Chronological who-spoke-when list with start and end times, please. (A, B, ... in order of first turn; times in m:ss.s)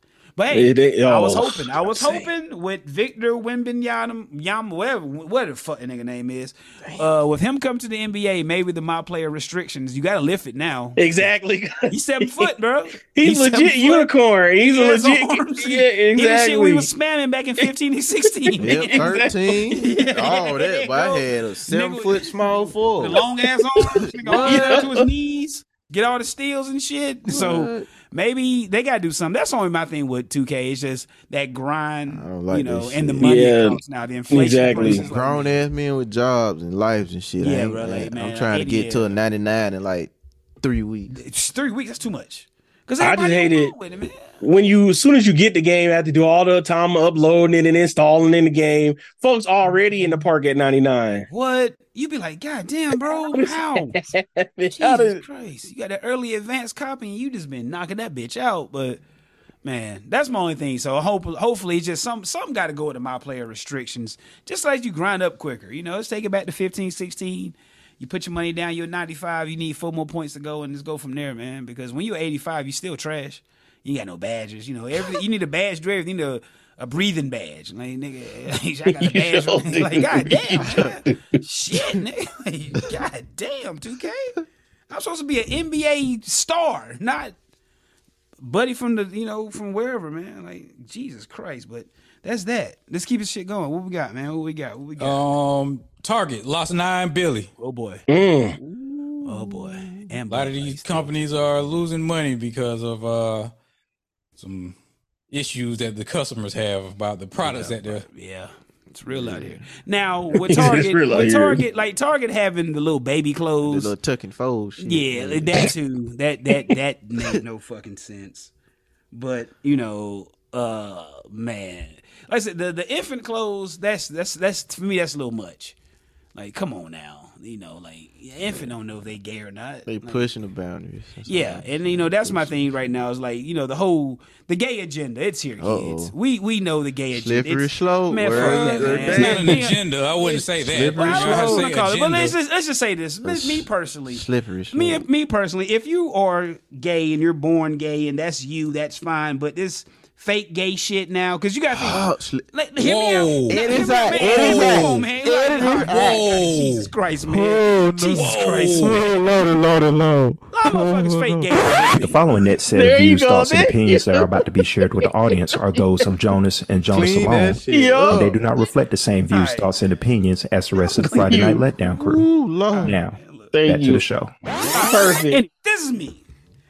0:00.4-0:11.1 A
0:00.5-0:02.3 B
0:11.0-0:12.5 B
0:11.9-0:35.6 A
0:13.1-0:16.9 B
0:18.3-0:19.3 B
0:18.6-0:23.2 C
0:23.8-0:24.8 C
0:24.3-0:25.0 B
0:27.3-0:27.9 C
0:32.1-0:33.4 C
0:33.2-0:33.8 B
0:34.3-0:35.0 B
0:34.6-0:41.1 C
0:37.4-0:39.2 A
0:41.1-0:44.3 A
0:43.0-0:43.7 B
0:44.4-0:51.3 B
0:51.3-0:53.9 A
0:53.1-0:55.2 B
0:54.8-0:59.0 A
0:59.6-1:24.4 A
1:18.9-1:21.2 B
1:24.9-1:27.3 A
1:28.4-1:35.2 A
1:35.0-1:37.5 D
1:37.6-1:38.0 A
1:38.1-1:38.6 B
1:38.6-1:41.4 A
1:38.9-1:40.0 C
1:40.3-1:43.5 D
1:44.4-1:44.8 D
1:45.3-1:48.0 D
1:47.4-1:53.9 A
1:49.1-1:49.6 C
1:50.3-1:51.6 B
1:53.6-1:55.7 C
1:54.8-1:58.5 A
1:59.1-2:05.8 A
2:06.3-2:10.2 A
2:08.4-2:08.7 C
2:09.9-2:12.7 C
2:11.2-2:39.1 A
2:15.6-2:16.1 C
2:17.1-2:19.6 C
2:18.3-2:22.3 D
2:20.6-2:21.7 C
2:23.2-2:25.0 C
2:31.7-2:32.5 C
2:32.8-2:35.0 D
2:33.5-2:36.3 C
2:35.7-2:36.9 D
2:37.2-2:41.6 C
2:38.1-2:39.0 D
2:40.5-2:42.2 A
2:41.9-2:52.2 E
2:42.7-2:44.4 B
2:46.9-2:48.4 C
2:47.7-2:48.3 B
2:49.3-2:49.7 A
2:50.8-2:51.5 A
2:51.1-2:51.6 B
2:51.8-2:53.0 C
2:52.7-2:53.5 A
2:52.8-2:54.4 E
2:53.5-2:54.0 B
2:54.6-2:56.2 A
2:54.7-2:55.4 B